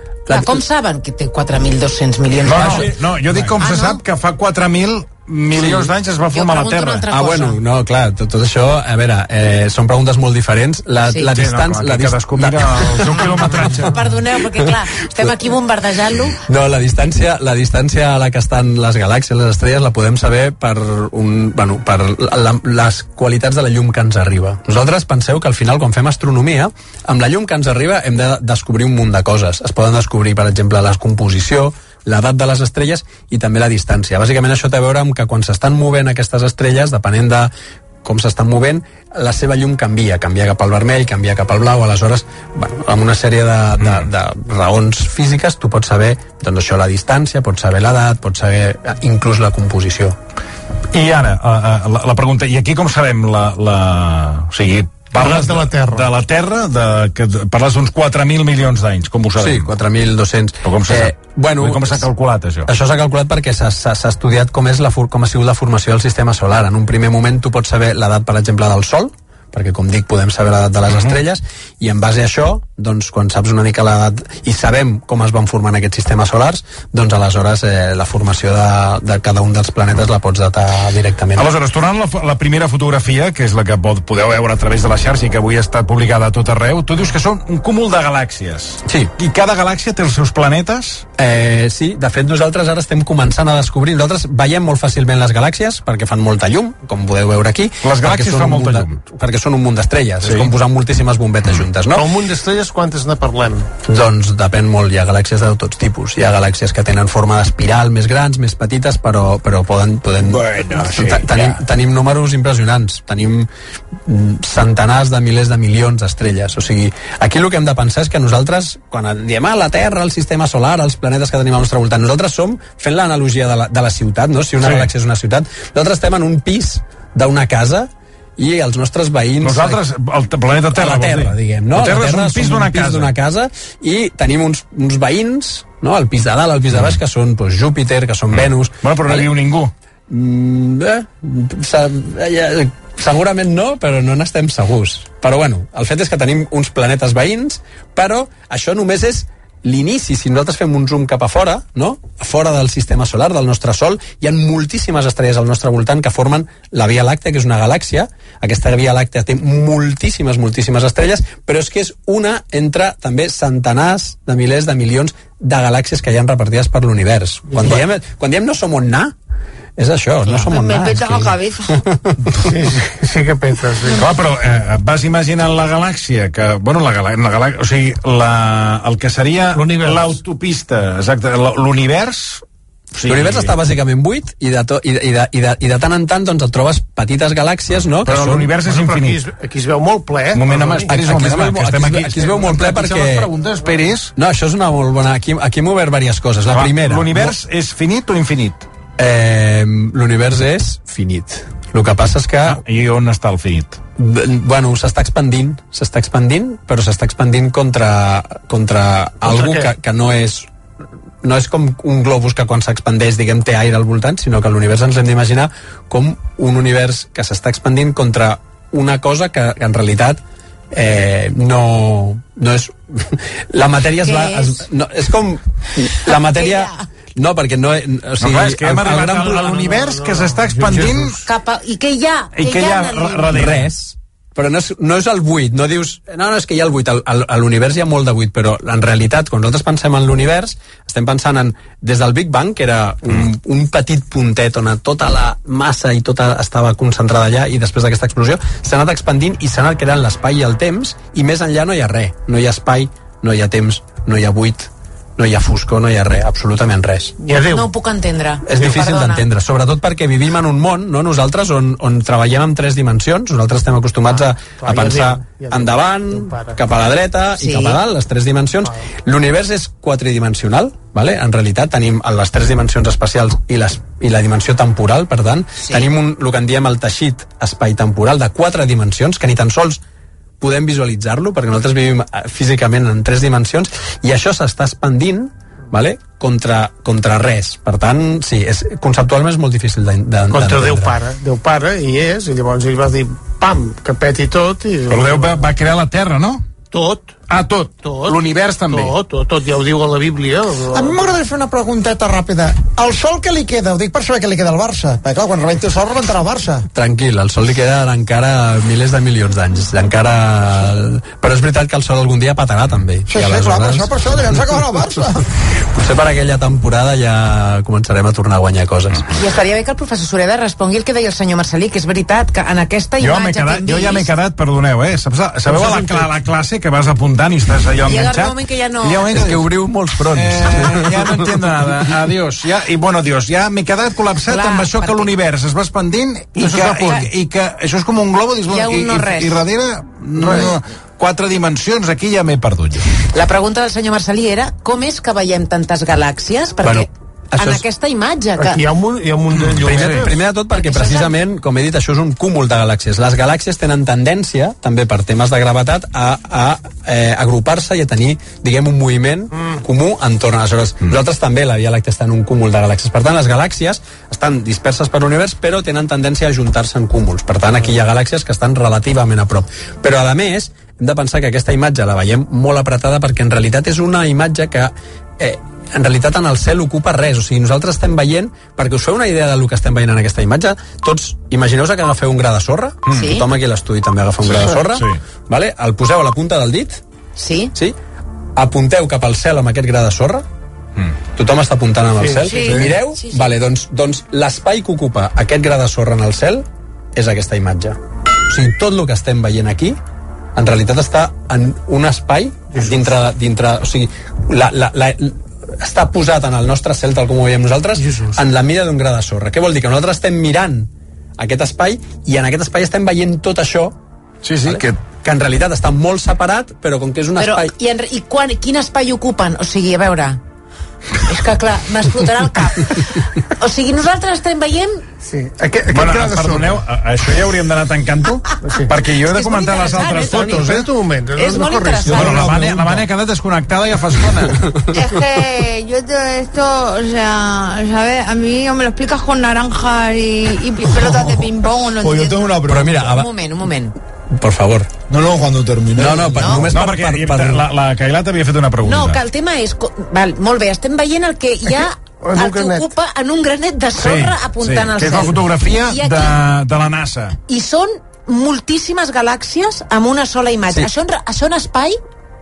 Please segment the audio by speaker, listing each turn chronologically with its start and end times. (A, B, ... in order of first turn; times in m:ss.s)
0:00.3-0:00.6 A
0:00.3-0:04.0 B
0:02.4-0:07.1 C
0:05.6-0:07.6 B
0:07.1-0:13.9 A
0:11.1-0:11.4 B
0:11.3-0:14.0 C
0:13.4-0:16.4 B
0:14.6-0:15.4 A
0:16.4-0:37.5 A
0:38.0-0:50.2 A
0:50.9-0:59.7 C
0:55.1-0:56.1 D
0:59.4-1:02.0 A
1:00.6-1:02.7 C
1:02.7-1:21.5 A
1:10.9-1:11.2 C
1:21.4-1:31.0 C
1:28.8-1:29.1 A
1:31.2-1:42.1 A
1:37.8-1:39.0 C
1:40.2-1:40.5 C
1:41.9-1:43.7 D
1:43.8-1:53.5 A
1:50.2-1:51.6 C
1:54.0-2:09.8 A
2:04.6-2:04.9 C
2:09.4-2:13.1 C
2:10.7-2:19.3 A
2:18.3-2:19.7 C
2:20.1-2:49.1 A
2:47.5-2:47.8 D
2:49.8-2:52.1 A
2:50.4-2:51.6 E
2:52.4-2:54.1 D
2:53.9-3:02.4 C
2:59.5-3:00.2 D
3:02.9-3:03.6 C
3:03.0-3:08.6 A
3:08.0-3:09.2 C
3:08.6-3:11.1 D
3:10.3-3:14.1 C
3:10.8-3:13.3 A
3:14.2-3:17.4 A
3:16.5-3:18.6 C
3:19.0-3:22.6 A
3:22.4-3:23.8 C
3:24.0-3:30.5 A
3:29.3-3:29.7 D
3:31.2-3:49.6 A
3:44.0-3:44.6 B
3:46.1-3:46.7 B
3:48.2-3:51.2 C
3:49.3-3:51.2 D
3:51.2-3:53.5 B
3:52.3-3:53.7 C
3:53.3-4:17.1 A
4:17.2-4:17.7 D
4:17.4-4:19.2 B
4:18.5-4:39.8 A
4:24.6-4:26.6 D
4:27.4-4:27.8 B
4:40.4-4:51.0 A
4:50.3-4:55.5 D
4:54.9-4:56.4 C
4:56.7-5:01.0 D
4:57.3-4:58.9 C
5:00.7-5:06.6 F
5:06.7-5:19.0 A
5:13.1-5:15.2 F
5:19.1-5:24.1 B
5:23.0-5:29.5 C
5:25.6-5:25.8 B
5:27.8-5:29.1 B
5:29.1-5:31.4 A
5:30.1-5:42.9 C
5:34.3-5:35.1 B
5:36.4-5:37.0 D
5:36.7-5:37.1 B
5:38.5-5:39.4 B
5:40.2-5:40.6 D
5:43.1-5:48.6 B
5:46.6-5:47.6 A
5:48.4-5:50.1 D
5:49.5-5:50.1 C
5:49.6-6:26.8 A
5:50.6-5:51.1 B
6:22.9-6:23.2 B
6:24.2-6:25.0 C
6:27.2-6:27.5 B
6:28.4-6:30.2 A
6:31.2-6:39.8 A
6:32.0-6:32.6 D
6:32.3-6:33.2 B
6:40.3-6:53.8 A
6:47.8-6:48.2 D
6:54.2-6:54.8 C
6:54.4-6:57.5 A
6:57.2-7:00.2 B
7:01.0-7:04.8 B
7:05.0-7:06.6 D
7:05.7-7:10.7 C
7:08.4-7:08.8 D
7:09.0-7:10.5 B
7:09.9-7:12.7 D
7:11.2-7:12.7 B
7:11.8-7:14.5 C
7:14.7-7:22.3 E
7:21.8-7:23.0 G
7:22.4-7:23.1 A
7:22.6-7:23.7 B
7:24.1-7:24.7 A
7:24.9-7:26.4 G
7:25.8-7:27.5 A
7:26.1-7:26.4 B
7:26.5-7:29.0 C
7:28.6-7:36.2 B
7:32.0-7:32.7 D
7:33.7-7:37.2 C
7:37.3-7:41.8 B